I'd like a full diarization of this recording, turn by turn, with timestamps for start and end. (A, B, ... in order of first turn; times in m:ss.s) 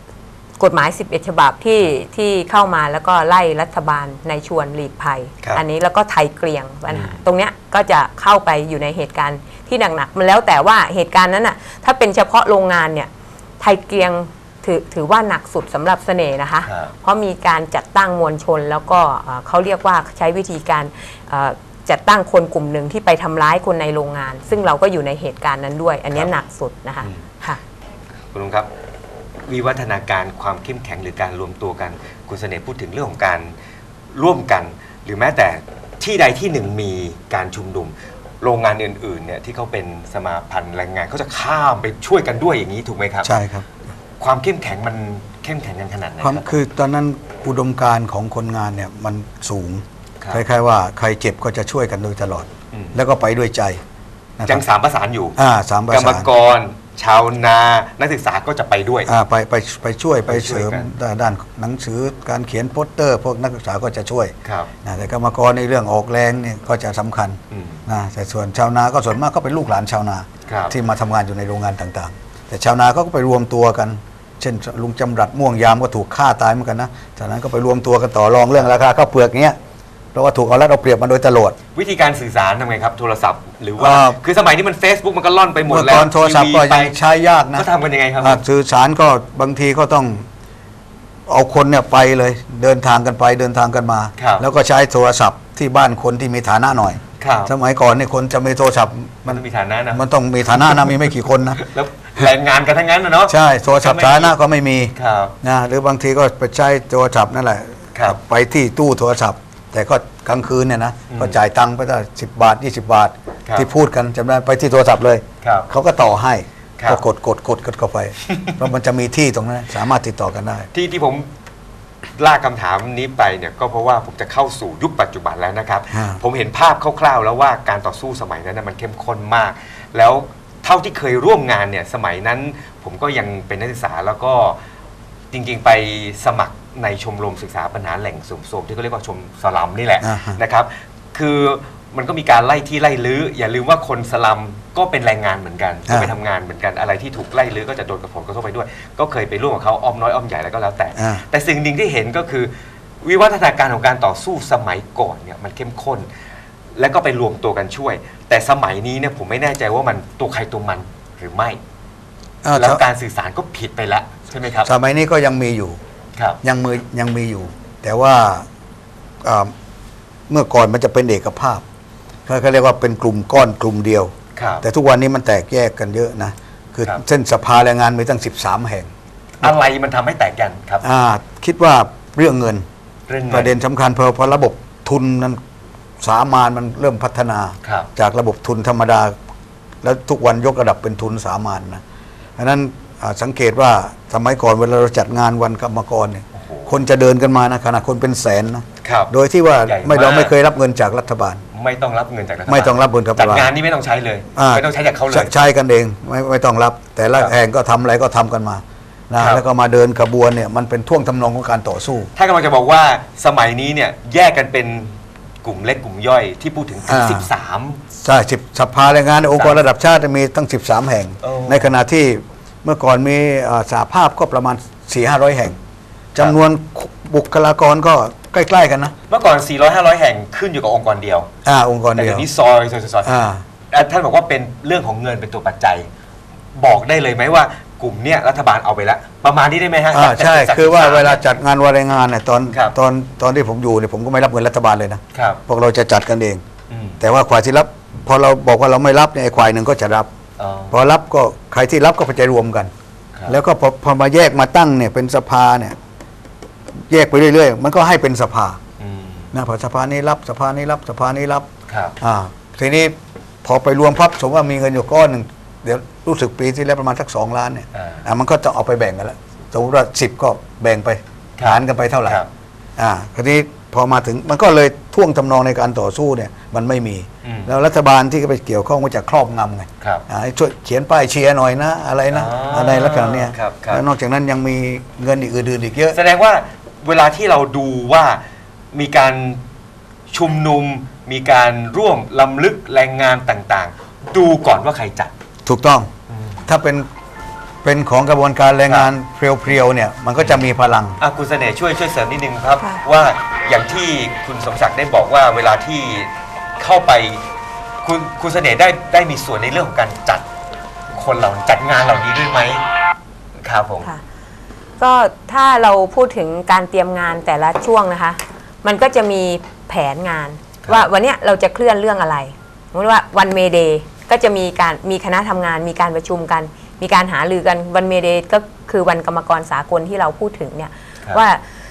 0:00.6-0:27.6 A
0:06.9-0:07.2 B
0:16.6-0:16.9 B
0:28.3-0:28.7 B
0:29.5-0:33.5 B
0:34.1-0:43.3 B
0:43.2-0:43.7 C
0:44.2-0:46.5 B
0:46.2-0:53.8 C
0:52.7-0:53.0 B
0:54.4-0:54.6 C
0:54.4-0:55.4 B
0:55.4-0:56.3 C
0:55.9-0:59.1 B
0:59.1-1:04.3 C
1:00.3-1:00.9 B
1:04.4-1:04.7 B
1:04.8-1:19.6 C
1:07.5-1:07.8 B
1:10.5-1:10.8 B
1:20.1-1:21.6 C
1:21.8-1:27.0 B
1:23.8-1:24.2 C
1:25.7-1:27.7 C
1:27.6-1:28.4 B
1:28.2-1:30.3 C
1:31.3-1:41.6 C
1:34.2-1:34.4 B
1:37.2-1:37.5 B
1:39.3-1:40.0 B
1:40.6-1:41.0 B
1:41.6-1:44.4 B
1:43.3-2:00.7 C
1:45.0-1:45.4 B
1:51.1-1:51.4 B
1:55.4-1:55.7 B
2:00.7-2:01.3 B
2:02.2-2:14.6 B
2:05.9-2:06.2 C
2:15.3-2:32.5 B
2:20.0-2:20.4 C
2:25.9-2:26.1 C
2:31.0-2:31.2 C
2:33.0-2:36.1 B
2:36.8-2:41.6 B
2:42.4-2:42.8 C
2:42.5-2:44.7 B
2:44.6-2:45.8 C
2:46.4-2:48.5 C
2:49.2-2:49.5 C
2:50.3-2:51.6 C
2:52.3-2:58.9 C
2:54.4-2:54.6 B
2:59.4-3:00.8 B
3:00.8-3:02.7 C
3:03.1-3:03.5 B
3:03.3-3:05.4 C
3:06.0-3:09.1 C
3:07.6-3:07.9 B
3:09.8-3:11.8 C
3:12.4-3:21.4 C
3:16.3-3:16.7 B
3:18.8-3:20.3 B
3:21.5-3:25.4 B
3:22.5-3:23.5 C
3:24.4-3:32.1 C
3:29.2-3:29.4 B
3:32.2-3:37.8 B
3:36.8-3:37.3 C
3:38.0-3:45.6 C
3:39.4-3:39.6 B
3:41.2-3:41.7 B
3:46.1-3:49.0 C
3:49.1-3:51.3 B
3:51.4-3:52.3 C
3:52.0-3:53.2 B
3:53.0-3:53.4 C
3:53.7-3:55.9 B
3:56.6-4:01.2 B
3:59.9-4:06.4 C
4:05.2-4:05.4 B
4:06.7-4:07.0 B
4:07.0-4:10.1 C
4:10.4-4:10.8 B
4:10.7-4:12.7 C
4:13.3-4:15.8 C
4:16.9-4:18.6 C
4:18.8-4:19.3 B
4:19.3-4:21.5 C
4:21.7-4:22.0 B
4:22.0-4:32.2 C
4:27.8-4:28.1 B
4:31.4-4:32.3 B
4:32.8-4:46.0 C
4:37.2-4:37.6 B
4:42.1-4:43.8 B
4:45.9-4:48.2 B
4:48.7-4:49.4 B
4:50.1-4:55.1 B
4:55.5-4:55.9 C
4:56.1-4:56.4 B
4:56.5-4:56.9 C
4:57.6-5:01.0 C
5:00.2-5:07.2 B
5:07.8-5:10.3 B
5:10.9-5:12.6 B
5:13.4-5:13.9 B
5:14.8-5:31.4 A